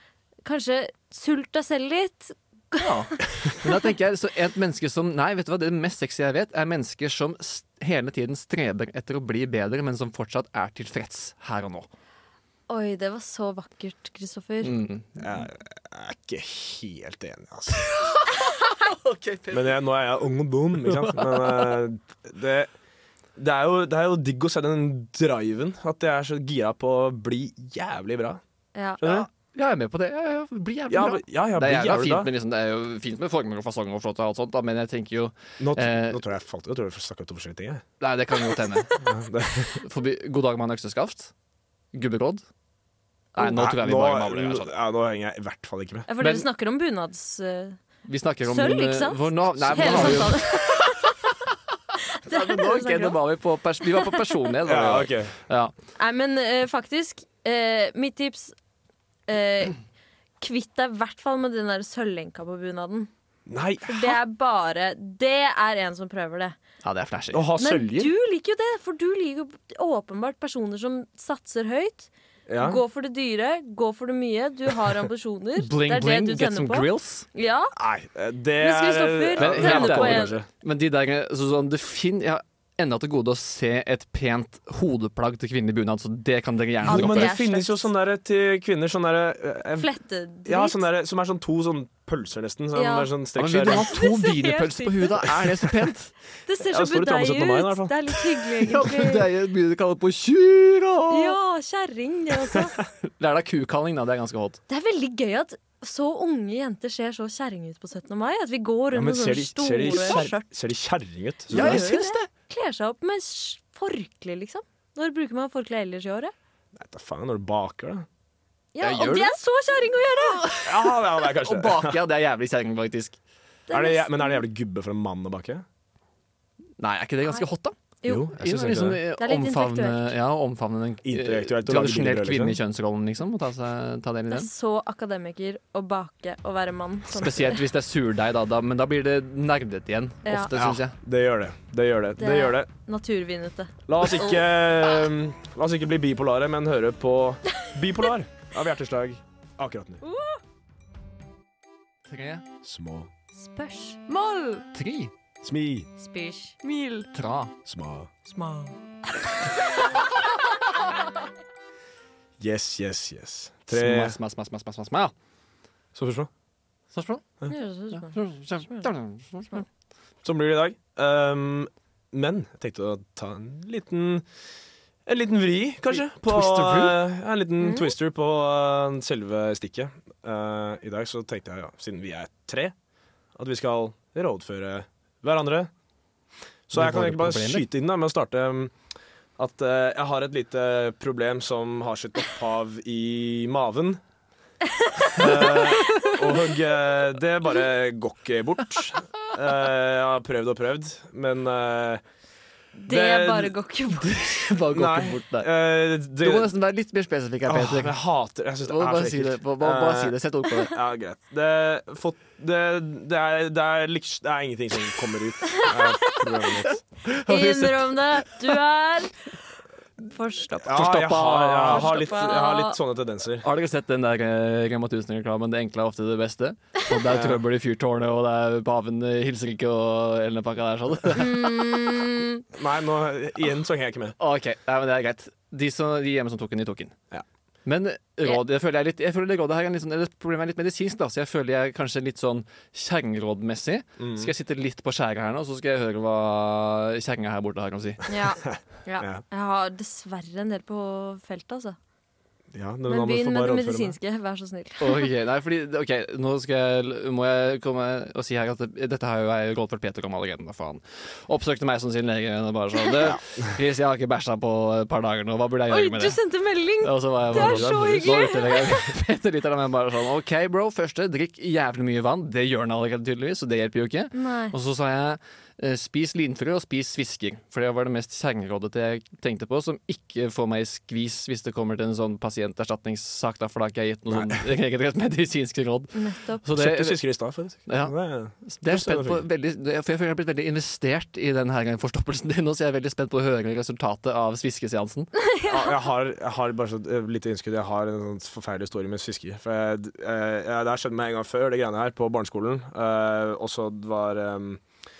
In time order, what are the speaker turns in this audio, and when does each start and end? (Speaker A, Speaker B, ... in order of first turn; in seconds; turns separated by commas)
Speaker A: 0.4-3.8, Speaker B: 2.8-11.9, Speaker A: 12.7-14.8, Speaker B: 14.6-15.4, Speaker C: 15.2-17.9, Speaker B: 17.7-19.7, Speaker C: 19.5-22.7, Speaker B: 20.9-21.7, Speaker C: 23.4-28.4, Speaker A: 28.7-29.0, Speaker C: 29.0-29.3, Speaker B: 29.0-36.2, Speaker C: 30.9-32.3, Speaker C: 35.6-37.8, Speaker B: 38.0-38.9, Speaker A: 38.4-39.0, Speaker C: 39.0-39.8, Speaker B: 39.8-41.3, Speaker B: 41.9-42.4, Speaker B: 43.4-44.7, Speaker C: 43.4-46.1, Speaker A: 46.1-47.8, Speaker B: 48.0-51.3, Speaker A: 48.4-51.1, Speaker C: 49.8-50.2, Speaker A: 52.1-53.2, Speaker B: 52.2-55.7, Speaker C: 54.6-55.3, Speaker A: 56.0-58.5, Speaker A: 59.3-59.8, Speaker A: 60.4-63.1, Speaker C: 63.5-64.2, Speaker A: 63.8-66.6, Speaker B: 66.8-67.4, Speaker C: 67.3-68.1, Speaker A: 67.6-77.7, Speaker C: 72.5-72.8, Speaker B: 75.6-77.2, Speaker C: 77.7-80.5, Speaker A: 78.6-80.4, Speaker B: 79.4-87.3, Speaker C: 86.8-89.9, Speaker A: 86.9-87.9, Speaker A: 89.8-90.8, Speaker C: 90.4-93.9, Speaker A: 92.7-93.1, Speaker B: 93.4-96.1, Speaker A: 93.6-95.3, Speaker A: 96.5-99.3, Speaker C: 96.7-98.5, Speaker B: 98.6-101.4, Speaker A: 101.1-102.8, Speaker B: 103.1-104.6, Speaker A: 104.7-110.4, Speaker C: 108.9-111.9, Speaker B: 109.9-110.3, Speaker B: 111.5-112.3, Speaker A: 111.5-116.3, Speaker C: 116.8-118.0, Speaker A: 118.7-120.7, Speaker B: 118.8-119.3, Speaker B: 120.4-120.6, Speaker C: 120.6-122.0, Speaker B: 121.2-123.2, Speaker A: 123.7-124.4, Speaker C: 123.7-125.6, Speaker B: 126.8-127.7, Speaker A: 128.0-128.3, Speaker C: 128.0-129.0, Speaker B: 128.4-134.5, Speaker A: 129.2-130.1, Speaker C: 131.0-132.6, Speaker A: 134.3-137.6, Speaker B: 137.1-141.0, Speaker A: 140.2-140.5, Speaker C: 140.6-142.7, Speaker A: 142.2-144.4, Speaker C: 143.9-150.0, Speaker A: 150.0-150.4, Speaker B: 152.1-152.4, Speaker C: 152.6-153.1, Speaker A: 153.3-154.6, Speaker B: 154.7-155.1, Speaker C: 155.4-155.9, Speaker A: 156.0-157.0, Speaker B: 157.1-157.5, Speaker C: 157.6-158.1, Speaker A: 158.3-158.8, Speaker A: 159.5-159.9, Speaker C: 162.4-164.2, Speaker B: 163.7-165.1, Speaker C: 165.9-166.3, Speaker B: 166.9-167.2, Speaker A: 167.5-168.9, Speaker B: 167.9-169.6, Speaker C: 170.2-174.2, Speaker C: 175.1-182.7, Speaker B: 175.9-176.9, Speaker A: 177.6-177.9, Speaker C: 183.3-185.7, Speaker C: 186.7-188.7, Speaker B: 186.7-187.7, Speaker C: 189.4-194.0, Speaker A: 194.8-196.1, Speaker C: 195.1-202.0, Speaker B: 195.9-196.1, Speaker A: 202.8-204.2, Speaker C: 202.9-203.6, Speaker B: 203.9-205.5, Speaker C: 204.7-206.5, Speaker B: 206.2-207.9, Speaker C: 207.4-216.8, Speaker B: 208.7-210.7, Speaker A: 215.6-216.2, Speaker B: 217.0-218.3, Speaker A: 217.2-219.3, Speaker A: 220.1-220.8, Speaker C: 220.6-223.4, Speaker B: 220.7-221.9, Speaker A: 221.7-222.8, Speaker B: 223.4-231.6, Speaker C: 227.1-227.4, Speaker A: 231.1-232.4, Speaker C: 232.5-234.1, Speaker B: 234.2-236.9, Speaker B: 237.6-248.0, Speaker C: 244.0-244.3, Speaker A: 248.1-251.8, Speaker C: 252.5-253.9, Speaker A: 252.9-255.1, Speaker B: 254.8-266.1, Speaker A: 265.7-268.9, Speaker B: 266.8-287.0, Speaker C: 267.3-268.3, Speaker A: 274.1-274.5, Speaker C: 284.1-284.4, Speaker A: 285.9-286.4, Speaker C: 286.6-289.2, Speaker B: 287.6-295.1, Speaker A: 295.2-295.8, Speaker C: 295.5-304.6